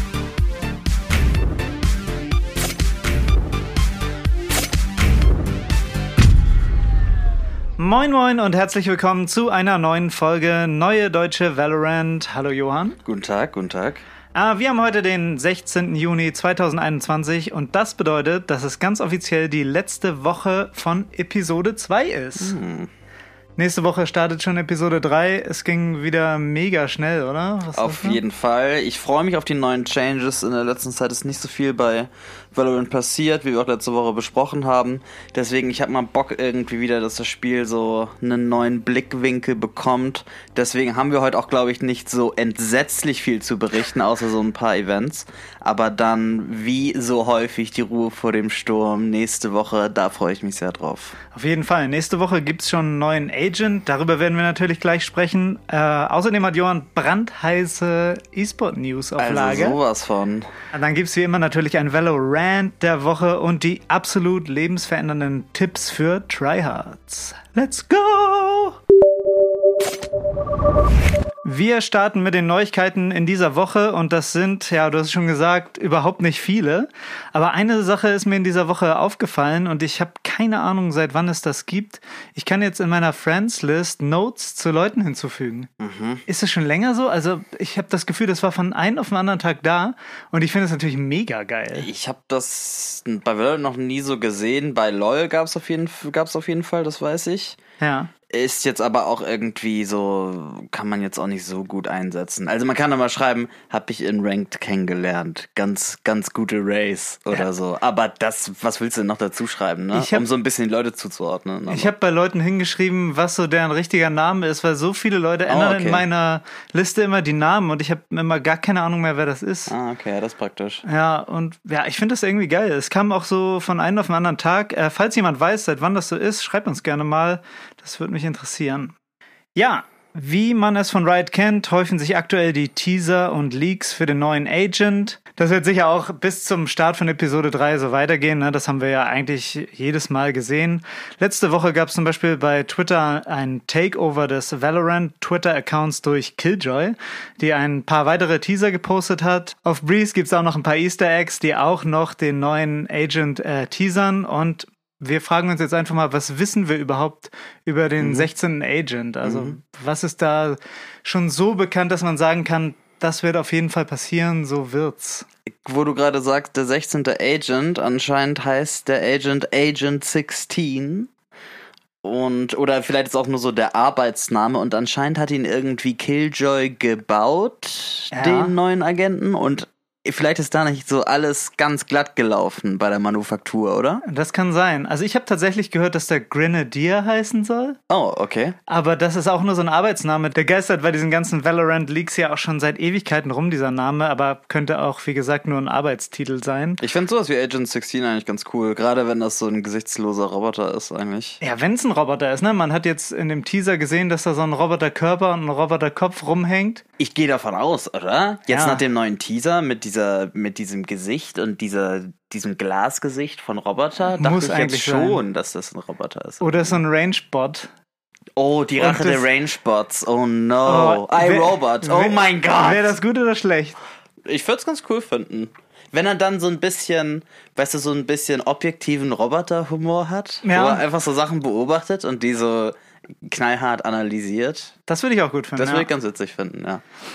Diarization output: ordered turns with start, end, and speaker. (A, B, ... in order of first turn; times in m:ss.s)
0:07.8-0:13.0 A
0:13.0-0:14.0 B
0:14.3-0:22.6 A
0:22.4-0:22.9 B
0:23.6-0:28.2 A
0:27.8-0:51.2 B
0:51.3-0:59.8 A
0:59.2-1:00.5 B
1:00.7-1:08.8 A
1:11.4-1:25.7 A
1:25.8-1:26.2 B
1:26.2-1:31.9 A
1:31.7-1:37.6 B
1:37.8-1:38.1 A
1:38.3-1:51.9 B
1:49.9-1:50.2 A
1:51.7-1:59.7 A
1:55.5-1:56.1 B
1:59.7-2:00.8 B
2:00.8-2:08.9 A
2:09.5-2:45.2 A
2:38.0-2:38.3 B
2:39.2-2:39.6 B
2:45.6-2:51.1 B
2:52.0-3:04.0 B
2:58.1-2:58.5 A
3:04.0-3:07.8 A
3:07.9-3:08.6 B
3:08.7-3:16.8 A
3:16.8-3:21.4 B
3:21.4-3:26.8 A
3:27.0-3:36.8 B
3:28.5-3:28.8 A
3:34.1-3:35.2 A
3:36.4-3:37.7 A
3:38.4-3:42.9 B
3:38.8-3:39.2 A
3:40.6-3:43.8 A
3:44.3-3:54.7 B
3:50.4-3:50.8 A
3:54.9-3:55.9 A
3:55.6-3:56.8 B